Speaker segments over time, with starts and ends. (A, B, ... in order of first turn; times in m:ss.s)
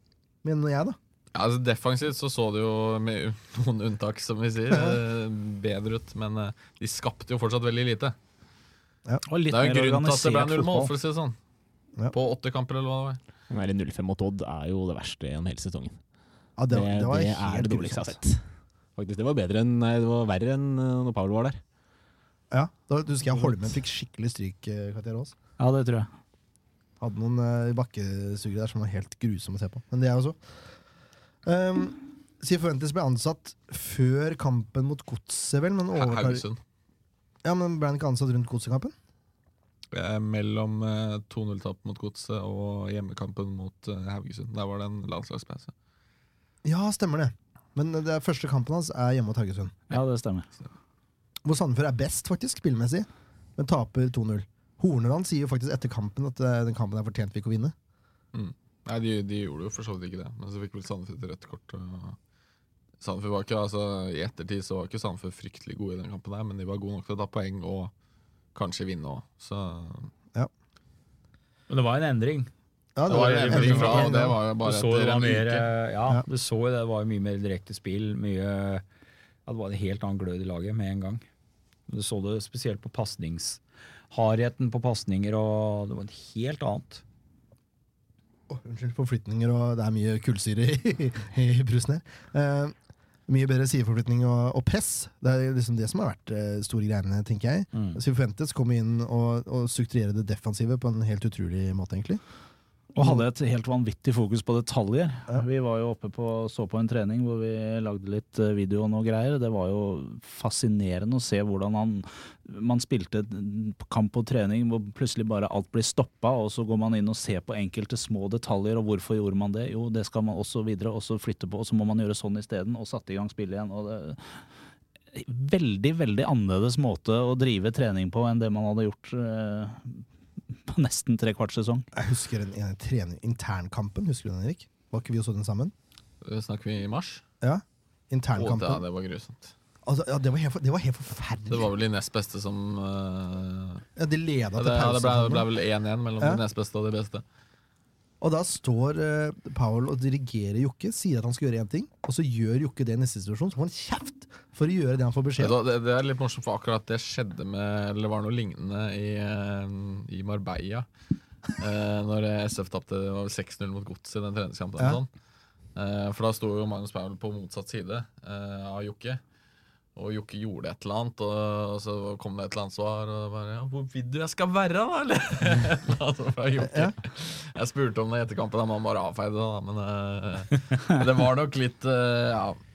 0:00.4-0:01.0 A
0:01.3-0:08.1 B
0:04.7-0:05.0 A
0:09.3-0:10.9 C
0:09.5-0:11.4 B
0:12.1-0:13.2 B
0:13.5-0:16.0 D
0:16.6-0:18.2 A
0:16.7-0:18.4 D
0:19.0-0:21.6 D
0:22.5-0:25.3 A
0:25.6-0:26.1 C
0:27.0-0:30.4 A
0:31.4-0:36.4 A
0:35.9-0:36.6 B
0:37.4-0:38.9 A
0:39.9-0:45.7 B
0:46.6-0:49.8 A
0:49.9-0:50.5 C
0:51.4-0:57.7 A
0:58.3-1:02.2 B
1:03.0-1:07.9 B
1:08.5-1:10.1 B
1:11.7-1:12.5 E
1:13.0-1:14.4 A
1:13.1-1:15.7 B
1:13.1-1:18.8 E
1:19.4-1:21.2 E
1:21.9-1:27.0 E
1:28.5-1:32.7 A
1:33.3-1:42.2 A
1:37.7-1:38.0 E
1:42.9-2:04.3 C
2:05.1-2:10.0 C
2:10.7-2:11.8 C
2:11.9-2:15.7 A
2:16.2-2:17.2 B
2:17.4-2:18.8 A
2:18.4-2:19.5 B
2:19.8-2:21.7 A
2:21.5-2:23.8 B
2:24.0-2:25.4 A
2:24.6-2:27.2 B
2:28.2-2:35.6 A
2:35.4-2:40.9 B
2:41.5-2:45.1 B
2:45.7-2:49.2 B
2:50.0-3:02.6 B
2:56.6-2:57.0 A